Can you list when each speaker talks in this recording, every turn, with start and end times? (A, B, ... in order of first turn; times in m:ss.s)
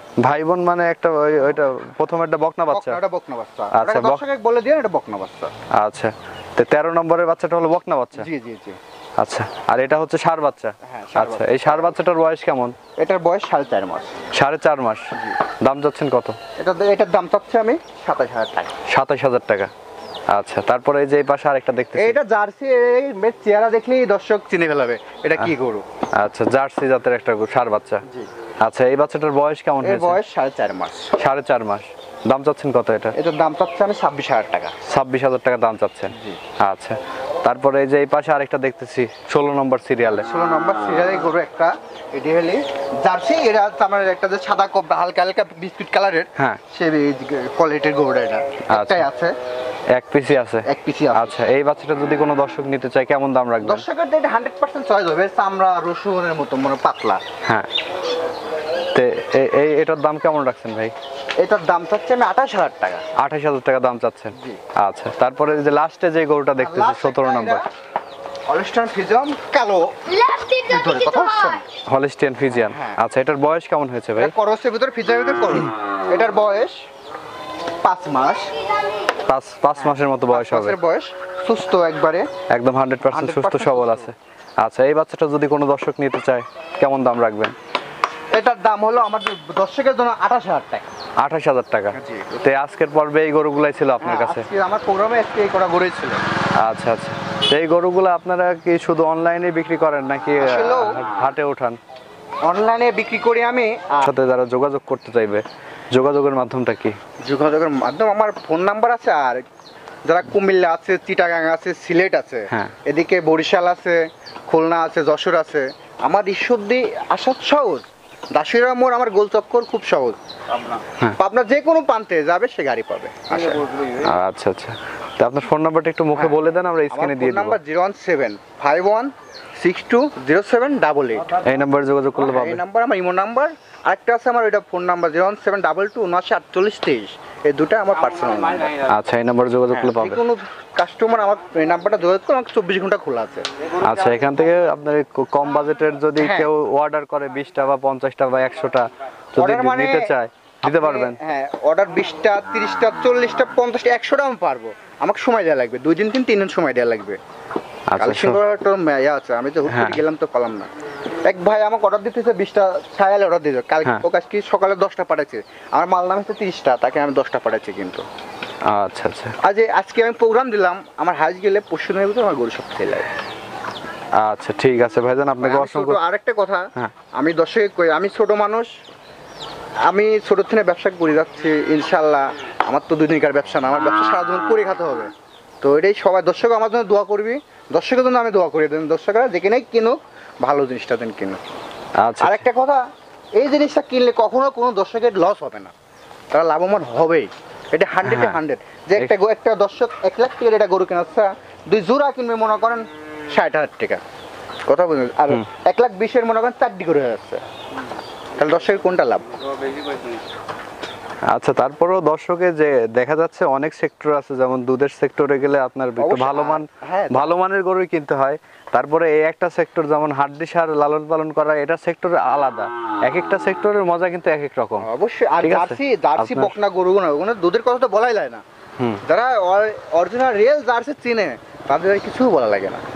0:00.2-0:03.0 A
0:02.7-0:05.5 B
0:03.7-0:04.2 A
0:05.7-0:08.3 A
0:08.1-0:08.8 B
0:09.2-0:12.8 A
0:10.8-0:12.0 B
0:13.0-0:14.1 B
0:14.3-0:15.1 A
0:15.6-0:16.4 A
0:16.6-0:18.7 B
0:18.9-0:19.7 A
0:20.3-0:22.2 A
0:22.0-0:25.8 B
0:26.1-0:28.0 A
0:28.6-0:30.2 A
0:29.8-0:31.1 B
0:31.2-0:33.1 A
0:33.1-0:34.7 B
0:34.8-0:40.3 A
0:36.1-0:36.4 B
0:40.2-0:49.3 B
0:48.7-0:49.1 A
0:49.9-0:53.8 A
0:50.6-0:51.5 B
0:53.6-0:57.2 B
0:58.9-1:00.9 A
1:01.4-1:03.1 B
1:03.2-1:07.6 A
1:06.6-1:07.7 B
1:08.5-1:11.6 B
1:11.8-1:14.3 A
1:12.6-1:13.0 B
1:14.2-1:16.8 B
1:17.8-1:18.5 B
1:19.3-1:20.8 A
1:19.8-1:22.3 B
1:22.5-1:27.5 A
1:23.0-1:24.1 B
1:28.3-1:30.9 B
1:31.2-1:34.4 A
1:31.9-1:32.3 B
1:34.0-1:36.2 B
1:36.6-1:41.8 A
1:40.4-1:41.0 B
1:42.4-1:44.1 B
1:44.0-1:47.0 A
1:47.2-1:49.4 B
1:50.0-2:00.2 B
2:01.2-2:03.7 B
2:03.9-2:07.6 A
2:06.1-2:11.4 B
2:11.4-2:12.6 A
2:12.2-2:18.8 B
2:18.8-2:20.2 A
2:19.7-2:23.4 B
2:23.8-2:31.2 A
2:26.2-2:26.5 B
2:29.4-2:37.2 B
2:37.9-2:38.4 A
2:38.0-2:40.7 B
2:39.7-2:40.0 A
2:41.2-2:48.0 B
2:48.7-2:49.4 A
2:49.4-2:53.1 B
2:54.2-2:56.0 A
2:55.4-2:58.7 B
2:59.9-3:05.1 B
3:05.6-3:11.4 B
3:12.0-3:12.4 A
3:12.2-3:12.8 B
3:13.4-3:15.7 B
3:16.3-3:24.0 B
3:18.0-3:18.4 A
3:24.7-3:27.4 B
3:28.4-3:29.3 B
3:31.3-3:44.8 A
3:36.0-3:37.3 B
3:44.8-3:48.4 B
3:45.4-3:46.5 A
3:49.0-3:52.8 B